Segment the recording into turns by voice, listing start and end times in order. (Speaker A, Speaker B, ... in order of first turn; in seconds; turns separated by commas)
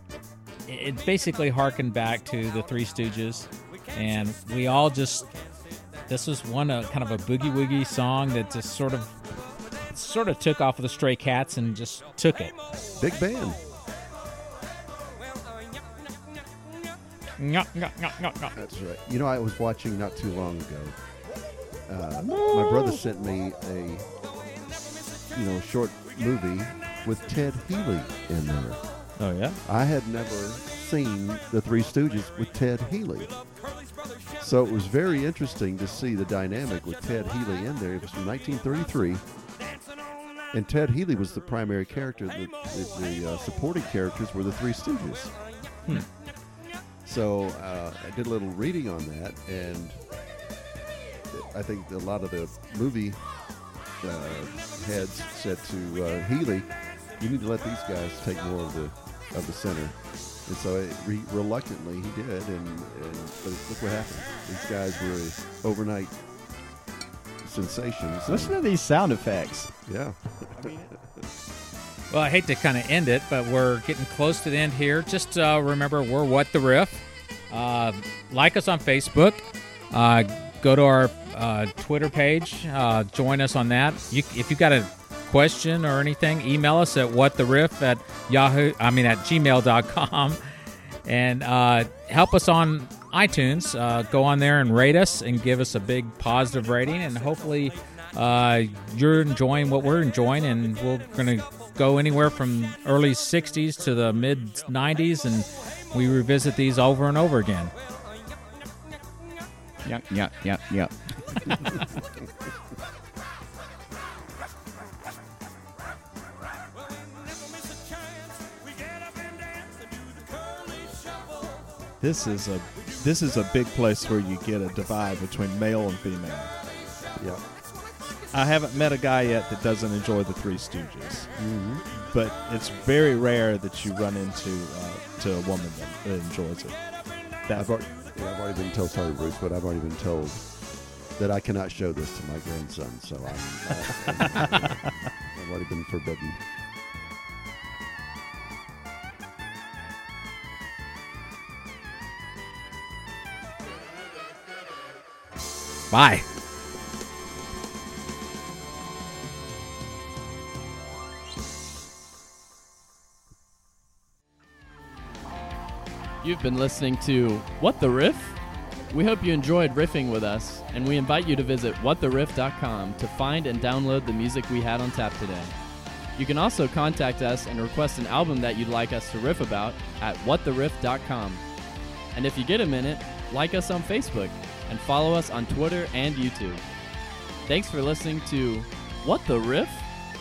Speaker A: 0.7-5.3, Speaker A: 6.1-9.2, Speaker A: 9.9-12.5, Speaker B: 13.0-13.6, Speaker A: 17.4-18.6, Speaker B: 18.6-21.0, Speaker B: 21.9-24.1, Speaker C: 22.4-22.9, Speaker B: 25.3-29.1, Speaker D: 29.2-29.6, Speaker B: 29.6-33.6, Speaker B: 34.4-39.3, Speaker B: 40.5-45.4, Speaker B: 47.0-50.1, Speaker B: 51.3-66.2, Speaker B: 67.4-68.6, Speaker C: 68.3-69.7, Speaker B: 69.9-70.9, Speaker C: 70.6-70.8, Speaker A: 72.1-90.4, Speaker A: 91.0-107.7, Speaker C: 109.8-111.6, Speaker D: 122.0-126.5, Speaker B: 127.2-127.4, Speaker D: 128.3-131.3, Speaker B: 131.4-131.8, Speaker D: 131.9-136.8, Speaker D: 137.4-137.7, Speaker B: 137.5-146.4, Speaker A: 155.9-156.2, Speaker E: 166.2-175.6, Speaker E: 176.1-181.5, Speaker E: 182.1-186.7, Speaker E: 187.4-189.9